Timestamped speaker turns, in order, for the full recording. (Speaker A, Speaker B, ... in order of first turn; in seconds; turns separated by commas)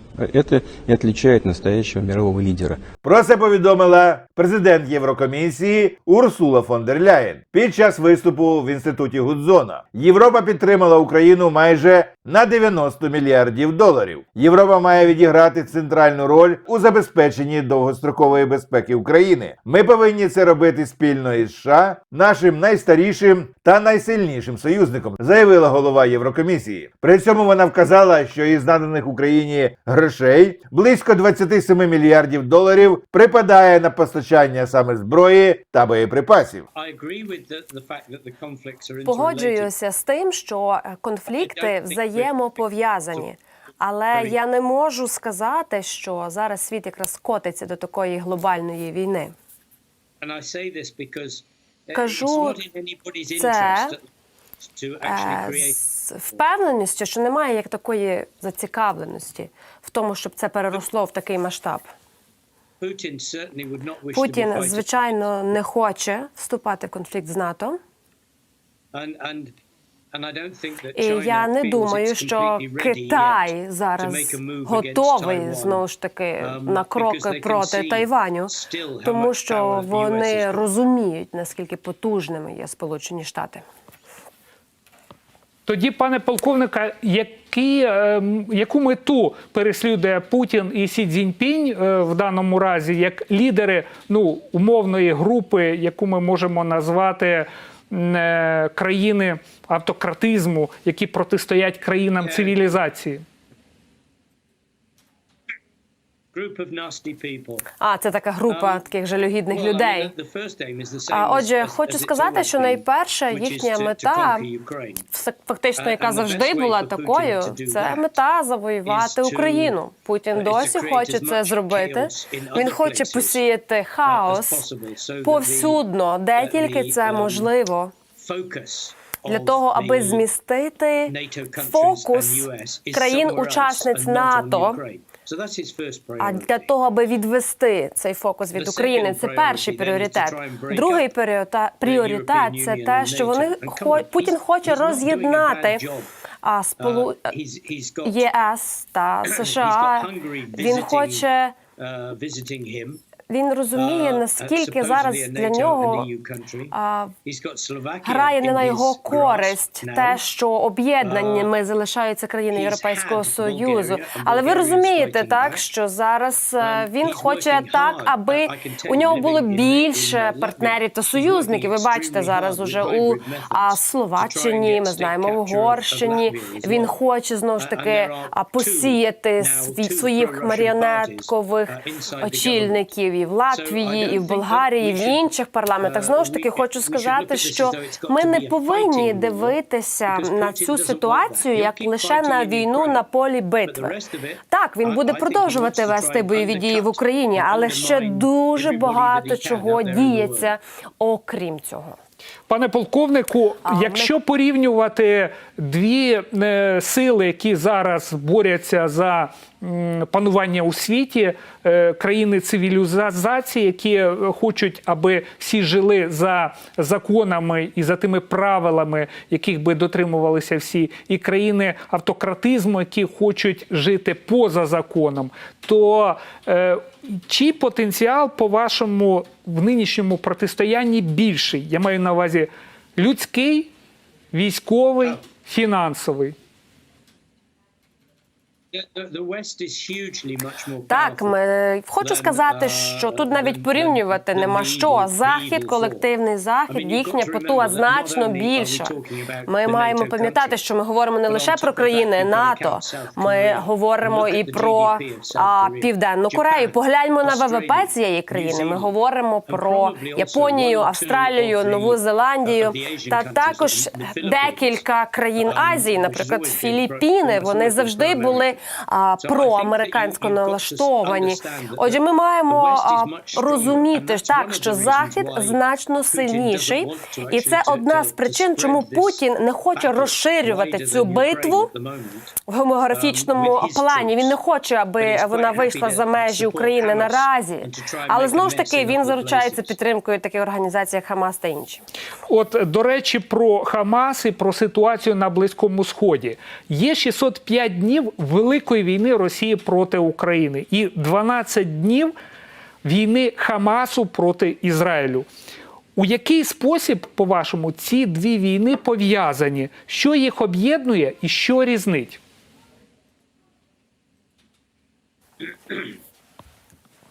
Speaker A: 0.2-2.8, Speaker B: 3.0-36.6, Speaker C: 36.7-39.7, Speaker D: 39.0-49.3, Speaker C: 41.3-43.2, Speaker C: 50.2-54.0, Speaker D: 51.9-52.6, Speaker D: 53.4-54.0, Speaker C: 54.6-56.4, Speaker D: 55.0-61.9, Speaker C: 62.8-65.2, Speaker D: 64.1-67.8, Speaker C: 68.9-69.5, Speaker C: 70.1-75.8, Speaker D: 70.9-83.6, Speaker C: 76.4-80.7, Speaker E: 85.7-103.2, Speaker C: 102.2-102.7, Speaker C: 106.3-107.7, Speaker D: 107.8-110.1, Speaker C: 108.5-108.8, Speaker C: 109.5-115.0, Speaker D: 111.1-114.5, Speaker D: 115.1-124.6, Speaker C: 115.8-118.1, Speaker C: 118.8-119.8, Speaker C: 120.3-123.4, Speaker C: 124.0-125.8, Speaker D: 125.2-127.9, Speaker C: 126.3-127.5, Speaker C: 128.1-130.2, Speaker D: 129.2-134.8, Speaker C: 131.1-136.7, Speaker D: 136.2-145.8, Speaker C: 138.5-141.1, Speaker C: 141.8-146.1, Speaker D: 146.4-147.2, Speaker C: 146.8-148.3, Speaker D: 148.0-151.6, Speaker C: 149.2-153.0, Speaker D: 153.3-156.1, Speaker C: 153.7-160.2, Speaker D: 156.7-157.1, Speaker D: 158.0-193.9, Speaker C: 161.0-161.5, Speaker C: 162.5-165.7, Speaker C: 166.6-177.0, Speaker C: 177.6-182.8, Speaker C: 183.5-193.1, Speaker C: 193.6-200.5, Speaker D: 194.5-202.0, Speaker E: 202.5-233.7, Speaker D: 203.7-204.1, Speaker E: 234.3-236.3, Speaker C: 238.7-241.3, Speaker D: 240.9-281.7, Speaker C: 242.0-246.1, Speaker C: 246.7-250.6, Speaker C: 251.2-258.9, Speaker C: 259.4-264.8, Speaker C: 265.4-268.6, Speaker C: 269.2-282.4, Speaker D: 282.5-291.8, Speaker C: 282.9-284.4, Speaker C: 285.0-289.8, Speaker E: 292.3-302.1, Speaker E: 302.8-305.3, Speaker E: 305.9-312.2